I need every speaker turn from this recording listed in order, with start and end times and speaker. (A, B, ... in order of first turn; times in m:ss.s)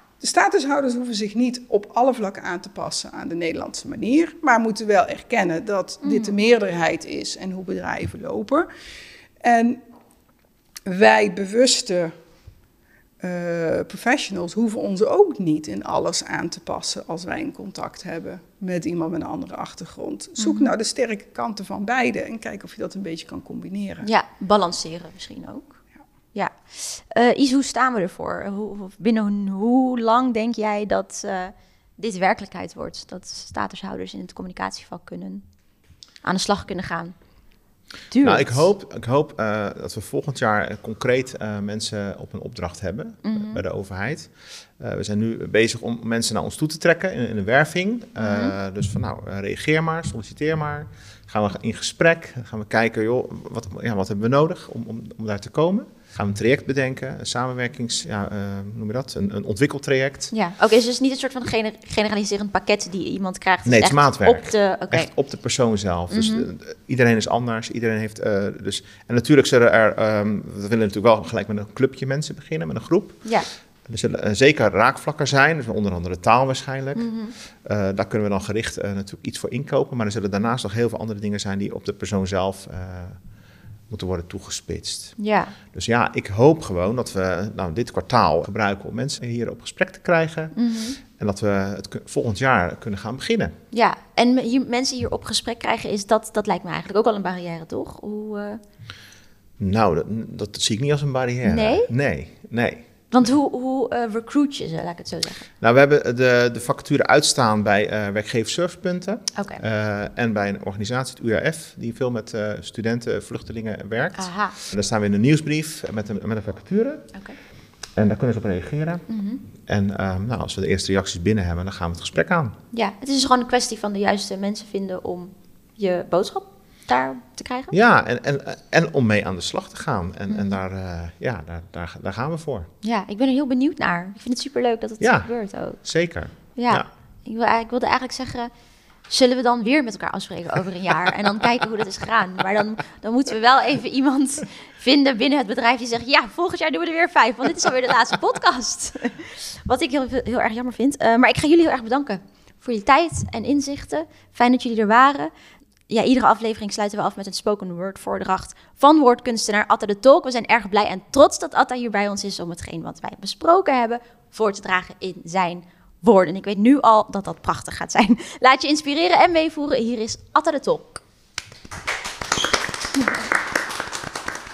0:00.2-0:08.7 A
0:06.0-0:06.4 B
0:09.4-0:09.8 A
0:10.9-0:12.1 A
0:13.2-0:24.1 A
0:20.4-0:20.7 B
0:24.0-0:25.8 B
0:26.3-0:35.4 B
0:36.2-0:37.2 B
0:38.1-0:38.7 B
0:38.2-1:00.3 C
0:43.2-0:43.6 B
0:48.2-0:48.5 B
1:00.3-1:05.1 B
1:03.6-1:13.3 C
1:06.1-1:06.5 B
1:13.8-1:17.1 C
1:17.0-1:17.3 B
1:17.6-1:23.2 C
1:23.9-1:25.2 C
1:25.2-1:25.5 B
1:25.7-1:30.6 C
1:30.5-1:31.0 B
1:31.1-1:33.6 C
1:33.7-1:38.6 B
1:39.6-1:42.9 C
1:41.4-1:41.9 B
1:43.1-1:45.5 B
1:45.6-1:57.1 C
1:49.4-1:49.6 B
1:54.2-1:54.5 B
1:58.0-1:59.1 C
1:59.1-1:59.4 B
1:59.6-2:02.6 C
2:02.7-2:07.7 B
2:07.7-2:12.7 C
2:10.3-2:10.6 B
2:12.8-2:15.8 B
2:15.0-2:16.9 C
2:16.6-2:18.5 B
2:19.1-2:35.3 B
2:35.9-2:51.0 B